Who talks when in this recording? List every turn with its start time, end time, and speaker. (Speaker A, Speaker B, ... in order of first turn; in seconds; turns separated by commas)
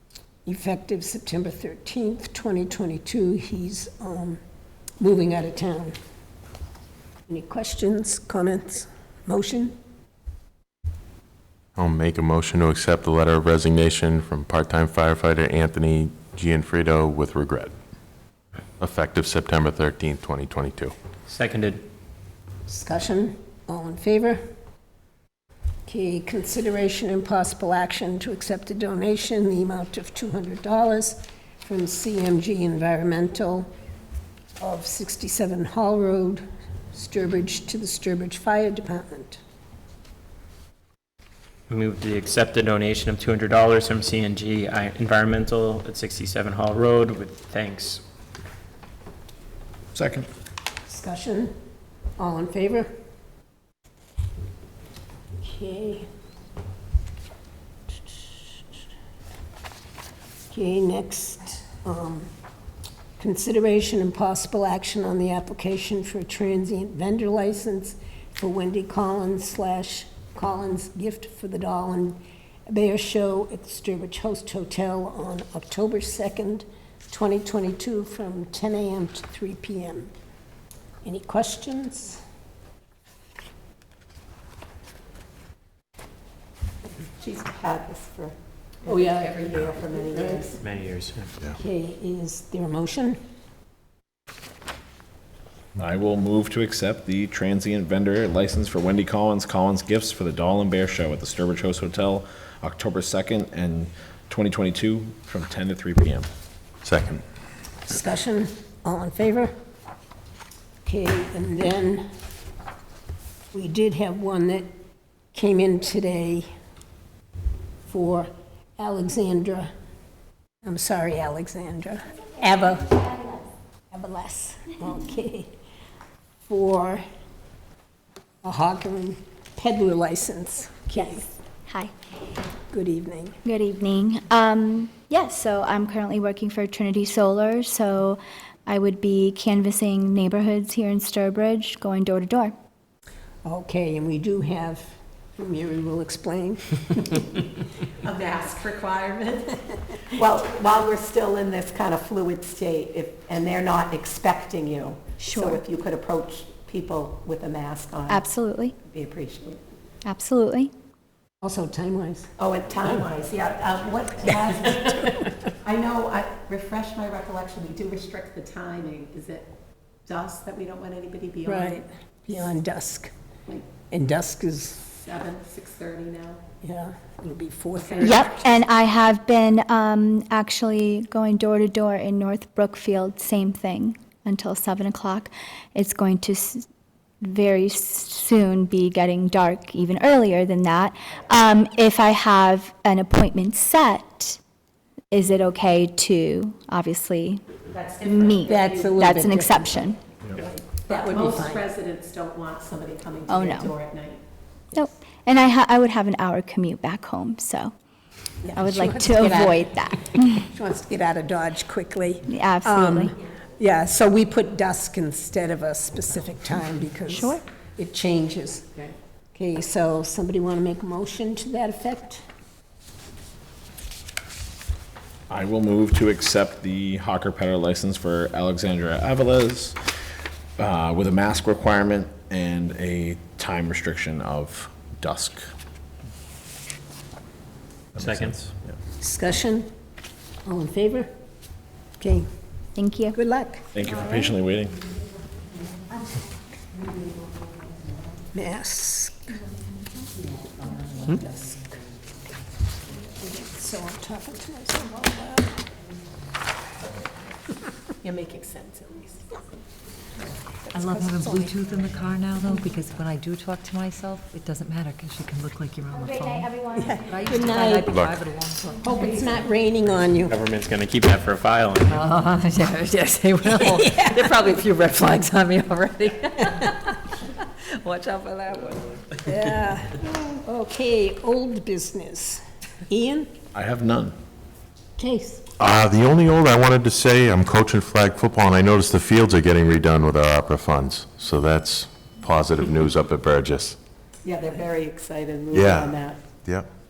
Speaker A: 0.4-4.4, Speaker A: 5.0-6.0, Speaker A: 7.3-9.8, Speaker B: 11.8-17.7, Speaker B: 18.8-20.9, Speaker C: 21.3-21.8, Speaker A: 22.6-24.4, Speaker A: 25.9-33.7, Speaker A: 34.6-39.4, Speaker C: 41.7-48.0, Speaker D: 49.9-50.3, Speaker A: 50.9-51.5, Speaker A: 52.2-52.9, Speaker A: 55.4-56.1, Speaker A: 60.5-62.3, Speaker A: 63.2-80.1, Speaker A: 81.0-82.2, Speaker E: 87.2-90.6, Speaker A: 88.8-90.5, Speaker C: 90.6-91.3, Speaker A: 91.5-93.2, Speaker D: 95.8-106.3, Speaker B: 106.8-107.2, Speaker A: 107.8-109.5, Speaker A: 110.8-112.1, Speaker A: 113.5-114.7, Speaker A: 115.3-116.5, Speaker A: 117.8-119.7, Speaker A: 120.6-123.3, Speaker A: 123.9-125.5, Speaker A: 126.4-127.0, Speaker A: 128.4-131.3, Speaker F: 131.7-131.9, Speaker A: 132.7-133.4, Speaker F: 133.4-142.5, Speaker A: 143.4-147.2, Speaker E: 148.0-158.2, Speaker F: 155.2-155.6, Speaker F: 158.1-158.8, Speaker E: 158.8-159.6, Speaker F: 160.1-160.7, Speaker A: 161.4-162.3, Speaker E: 162.4-169.5, Speaker E: 170.1-171.8, Speaker A: 171.4-173.1, Speaker A: 173.9-174.9, Speaker E: 174.9-176.4, Speaker A: 176.6-178.5, Speaker E: 177.7-178.6, Speaker F: 178.0-186.7, Speaker F: 187.2-194.4, Speaker F: 195.1-200.0, Speaker E: 197.6-199.1, Speaker A: 198.4-201.6, Speaker E: 200.3-204.2, Speaker F: 203.3-203.7, Speaker F: 204.7-207.7, Speaker A: 208.4-218.7, Speaker F: 208.5-210.0, Speaker F: 212.3-213.1, Speaker F: 217.1-217.4, Speaker A: 219.3-222.2, Speaker D: 225.3-230.0, Speaker D: 230.6-235.5, Speaker D: 237.9-238.7, Speaker C: 238.0-238.3, Speaker A: 239.0-239.7, Speaker A: 240.4-241.1, Speaker A: 242.0-242.3, Speaker F: 242.8-243.2, Speaker A: 243.1-243.7, Speaker D: 243.7-244.8, Speaker A: 248.3-249.4, Speaker A: 251.0-251.5, Speaker A: 253.2-255.6, Speaker E: 258.0-259.4, Speaker A: 260.7-261.5, Speaker G: 260.7-269.1, Speaker F: 266.3-266.7, Speaker A: 266.8-267.9, Speaker B: 267.9-268.2, Speaker A: 268.8-270.3, Speaker C: 270.2-272.0, Speaker G: 271.9-278.9, Speaker A: 273.4-274.3, Speaker A: 279.2-283.3, Speaker D: 283.5-284.1, Speaker A: 285.0-285.4, Speaker B: 285.6-293.8, Speaker E: 294.2-296.3, Speaker B: 295.5-296.7